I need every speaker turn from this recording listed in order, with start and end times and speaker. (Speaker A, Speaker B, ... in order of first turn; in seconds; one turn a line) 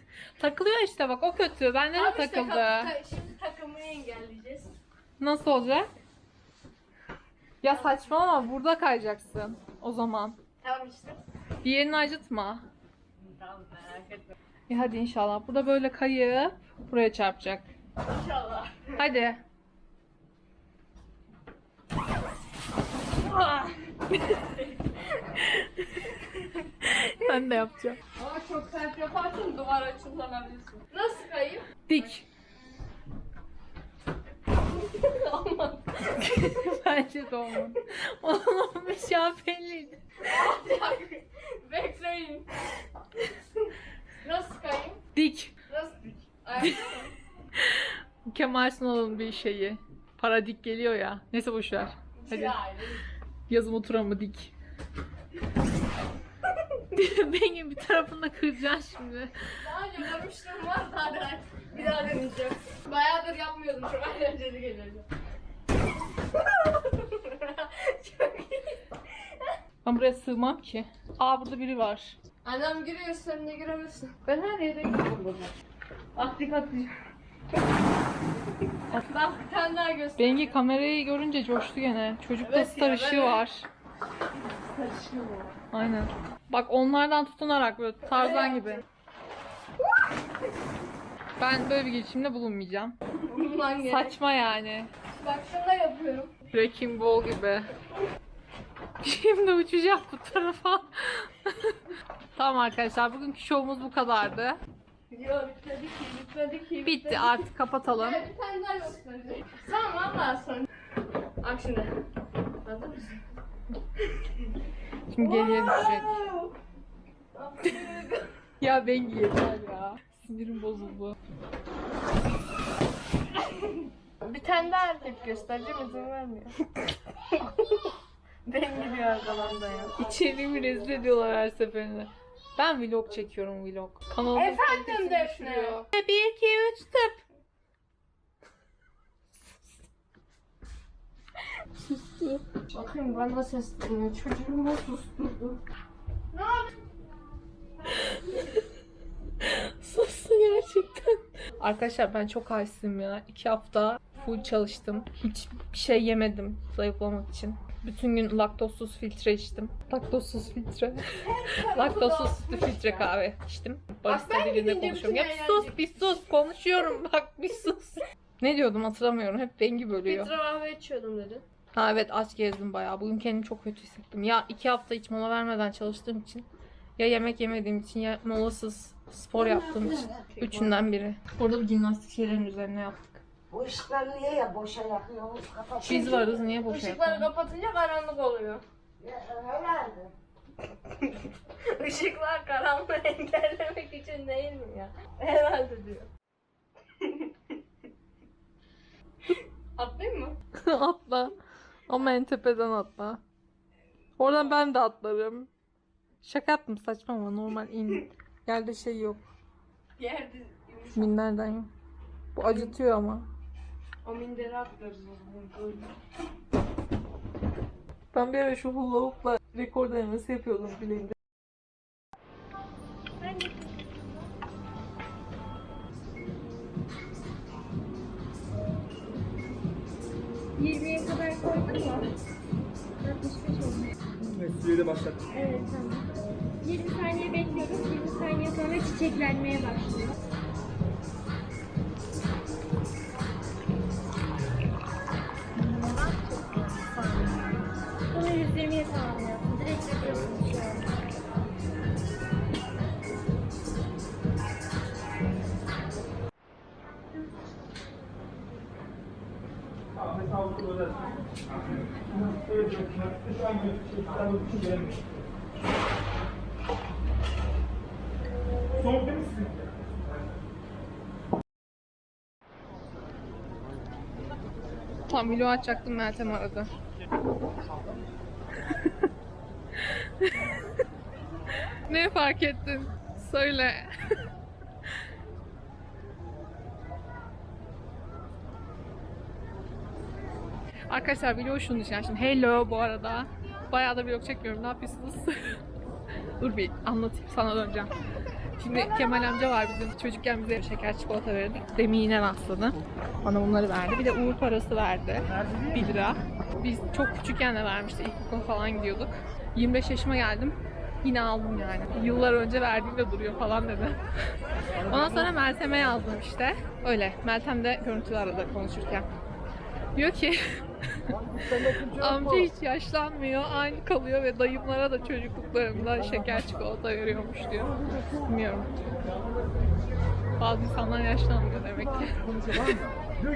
Speaker A: 0.4-2.9
Speaker B: 1.9-4.7
Speaker A: 5.2-5.9
Speaker A: 7.6-10.4
Speaker B: 10.6-11.2
Speaker A: 11.6-12.7
Speaker B: 13.2-14.3
Speaker A: 14.7-17.7
Speaker B: 18.1-19.0
Speaker A: 18.9-19.4
Speaker B: 23.3-23.6
Speaker A: 25.4-26.2
Speaker A: 26.8-28.0
Speaker B: 28.2-31.8
Speaker A: 31.9-32.2
Speaker B: 34.7-36.1
Speaker A: 36.1-40.0
Speaker B: 40.2-42.5
Speaker B: 44.2-45.0
Speaker A: 45.1-45.5
Speaker B: 45.7-47.1
Speaker A: 46.6-46.9
Speaker A: 47.6-52.5
Speaker B: 52.2-53.0
Speaker A: 53.5-54.5
Speaker A: 56.9-59.5
Speaker B: 59.6-65.0
Speaker B: 66.3-68.8
Speaker A: 69.8-72.2
Speaker B: 72.4-75.5
Speaker B: 76.2-76.9
Speaker B: 79.0-80.5
Speaker A: 80.2-83.7
Speaker B: 82.4-83.4
Speaker B: 84.5-85.5
Speaker A: 85.7-88.8
Speaker B: 88.1-88.8
Speaker A: 91.4-93.0
Speaker B: 93.2-94.2
Speaker A: 93.8-94.9
Speaker B: 95.2-96.3
Speaker A: 96.5-97.7
Speaker A: 99.0-101.8
Speaker A: 102.3-104.6
Speaker B: 105.1-110.7
Speaker A: 106.8-108.3
Speaker B: 111.4-112.0
Speaker B: 112.6-113.2
Speaker A: 115.1-116.2
Speaker B: 115.2-116.4
Speaker B: 117.3-118.3
Speaker A: 118.6-121.2
Speaker B: 124.2-126.5
Speaker B: 127.3-127.9
Speaker B: 128.5-129.9
Speaker A: 129.9-137.2
Speaker B: 134.3-135.8
Speaker B: 142.2-145.6
Speaker A: 149.4-170.3
Speaker B: 161.3-163.1
Speaker B: 164.1-165.8
Speaker B: 170.1-171.4
Speaker A: 171.7-176.4
Speaker A: 177.0-183.2
Speaker B: 180.4-180.8
Speaker C: 183.5-186.0
Speaker A: 185.8-187.3
Speaker B: 185.8-188.6
Speaker C: 189.0-190.1
Speaker B: 191.7-196.1
Speaker B: 199.8-200.4
Speaker A: 200.7-201.3
Speaker A: 201.9-203.2
Speaker A: 204.2-205.5
Speaker A: 206.2-209.2
Speaker B: 210.0-211.1
Speaker A: 210.9-211.7
Speaker A: 212.3-213.3
Speaker B: 212.4-212.7
Speaker B: 214.0-215.9
Speaker A: 218.1-221.2
Speaker D: 230.8-232.1
Speaker D: 233.1-234.5
Speaker D: 235.3-240.2
Speaker A: 247.0-247.4
Speaker D: 248.1-250.9
Speaker A: 275.1-276.7
Speaker A: 280.0-280.3
Speaker A: 281.9-283.9
Speaker A: 290.9-295.6
Speaker A: 296.4-297.9
Speaker A: 298.6-314.0
Speaker A: 314.9-319.1
Speaker A: 319.9-328.7
Speaker A: 330.4-332.6